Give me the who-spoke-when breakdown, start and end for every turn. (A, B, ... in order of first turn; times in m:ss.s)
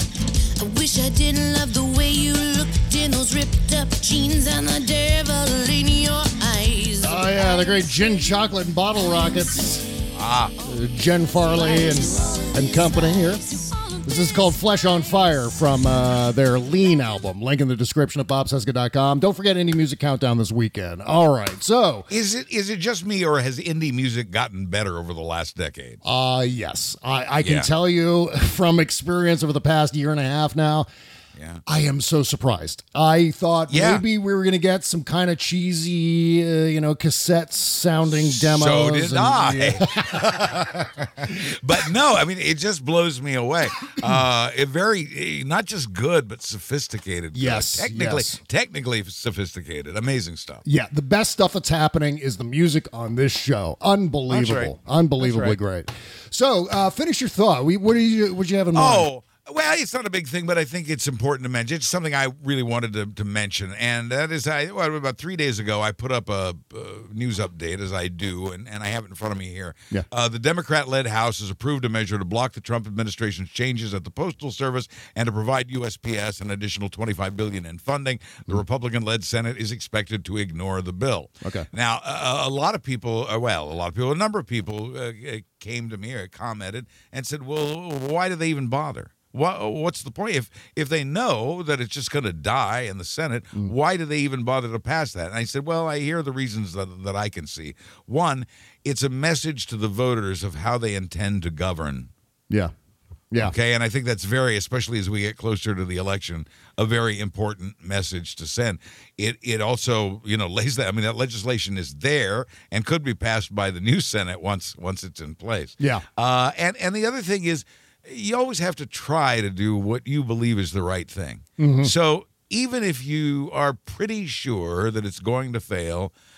0:00.6-0:08.2 A
0:07.0-0:09.8 B
0:10.2-0:10.5 C
0:10.6-0:13.5 B
0:11.4-0:15.4 A
0:14.0-0:22.1 B
0:22.1-0:26.0 C
0:26.0-0:30.9 B
0:27.4-0:27.7 C
0:31.4-0:31.6 C
0:31.7-0:41.3 B
0:33.7-0:34.0 C
0:38.1-0:40.7 C
0:41.2-0:50.6 C
0:47.3-0:48.4 B
0:50.6-0:59.1 B
0:54.3-0:55.6 C
0:58.7-1:42.1 C
1:43.4-2:06.1 C
2:01.6-2:01.9 B